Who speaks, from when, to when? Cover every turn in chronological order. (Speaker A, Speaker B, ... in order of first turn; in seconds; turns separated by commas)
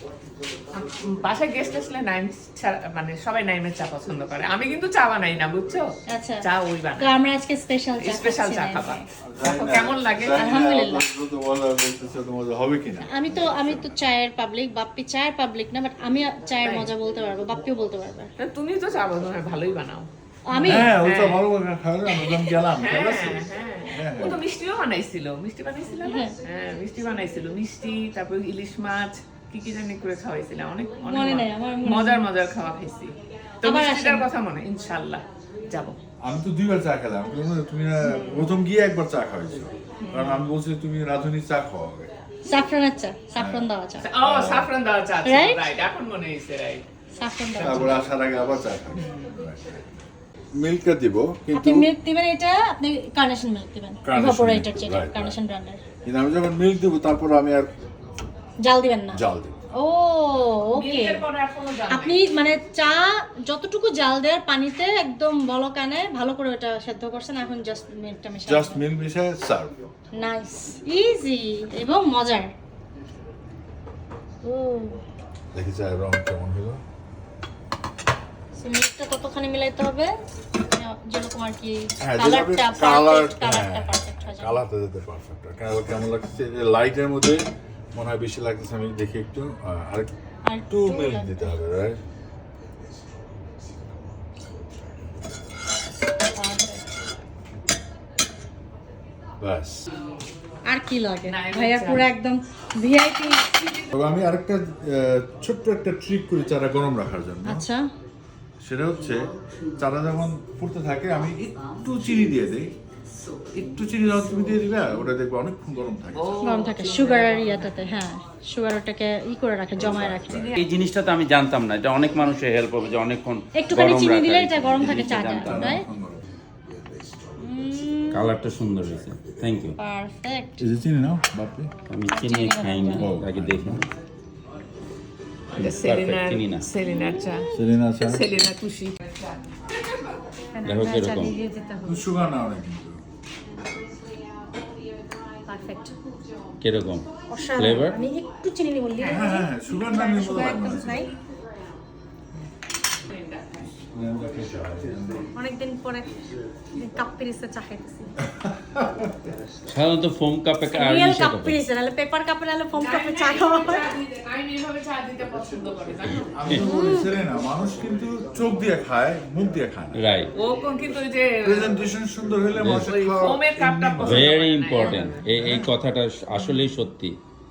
Speaker A: 0.7-7.1, Speaker B: 6.1-6.4, Speaker B: 7.0-9.0, Speaker A: 8.0-10.6, Speaker C: 9.2-13.9, Speaker B: 10.3-11.0, Speaker B: 13.0-18.3, Speaker A: 16.6-16.9, Speaker A: 18.4-21.4, Speaker B: 20.4-20.9, Speaker C: 20.6-24.4, Speaker A: 22.1-36.0, Speaker B: 26.0-26.3, Speaker B: 31.0-32.3, Speaker B: 33.6-34.3, Speaker C: 36.2-42.1, Speaker A: 38.1-38.5, Speaker A: 40.0-40.5, Speaker B: 42.5-44.0, Speaker C: 43.4-43.7, Speaker A: 44.0-46.8, Speaker C: 44.2-44.7, Speaker B: 45.2-45.6, Speaker B: 47.2-48.0, Speaker A: 47.5-48.0, Speaker C: 47.6-49.8, Speaker A: 49.0-49.3, Speaker C: 50.5-51.9, Speaker B: 51.5-55.8, Speaker C: 54.0-55.4, Speaker C: 56.0-57.7, Speaker B: 58.6-59.2, Speaker C: 59.1-59.6, Speaker B: 59.7-61.2, Speaker A: 60.7-62.3, Speaker B: 61.9-68.8, Speaker C: 68.5-69.7, Speaker B: 70.1-72.5, Speaker B: 74.4-75.0, Speaker C: 75.5-76.8, Speaker B: 78.5-84.6, Speaker C: 82.0-90.1, Speaker B: 90.5-91.6, Speaker C: 90.7-92.0, Speaker B: 96.3-96.9, Speaker C: 99.4-99.8, Speaker B: 100.7-103.5, Speaker A: 101.2-102.1, Speaker C: 103.9-107.7, Speaker B: 107.5-107.8, Speaker C: 108.6-112.7, Speaker C: 113.5-116.4, Speaker A: 116.1-117.9, Speaker B: 116.4-120.5, Speaker C: 119.8-120.6, Speaker A: 120.3-120.6, Speaker D: 120.5-125.7, Speaker B: 123.5-125.8, Speaker C: 124.9-126.3, Speaker B: 127.4-128.3, Speaker D: 128.1-129.8, Speaker B: 129.8-130.6, Speaker C: 130.6-131.7, Speaker D: 131.9-133.9, Speaker B: 132.1-133.1, Speaker C: 132.9-133.9, Speaker A: 135.5-140.2, Speaker D: 135.6-136.7, Speaker B: 136.8-137.5, Speaker C: 137.5-138.4, Speaker B: 140.5-142.1, Speaker D: 140.6-141.3, Speaker C: 141.8-143.0, Speaker B: 145.4-145.9, Speaker D: 146.6-148.0, Speaker B: 147.3-151.1, Speaker A: 149.0-149.3, Speaker C: 149.1-151.1, Speaker A: 153.1-153.8, Speaker C: 153.9-155.3, Speaker B: 155.3-156.1, Speaker B: 156.7-158.1, Speaker C: 158.2-159.1, Speaker D: 159.7-161.6, Speaker B: 160.7-163.9, Speaker A: 162.7-166.6, Speaker C: 166.3-170.0, Speaker B: 166.5-167.2, Speaker D: 170.0-170.3, Speaker A: 170.4-171.8, Speaker C: 171.4-174.3, Speaker D: 172.6-172.9, Speaker A: 172.7-175.2, Speaker D: 174.0-177.2, Speaker C: 175.3-175.7, Speaker B: 176.4-176.7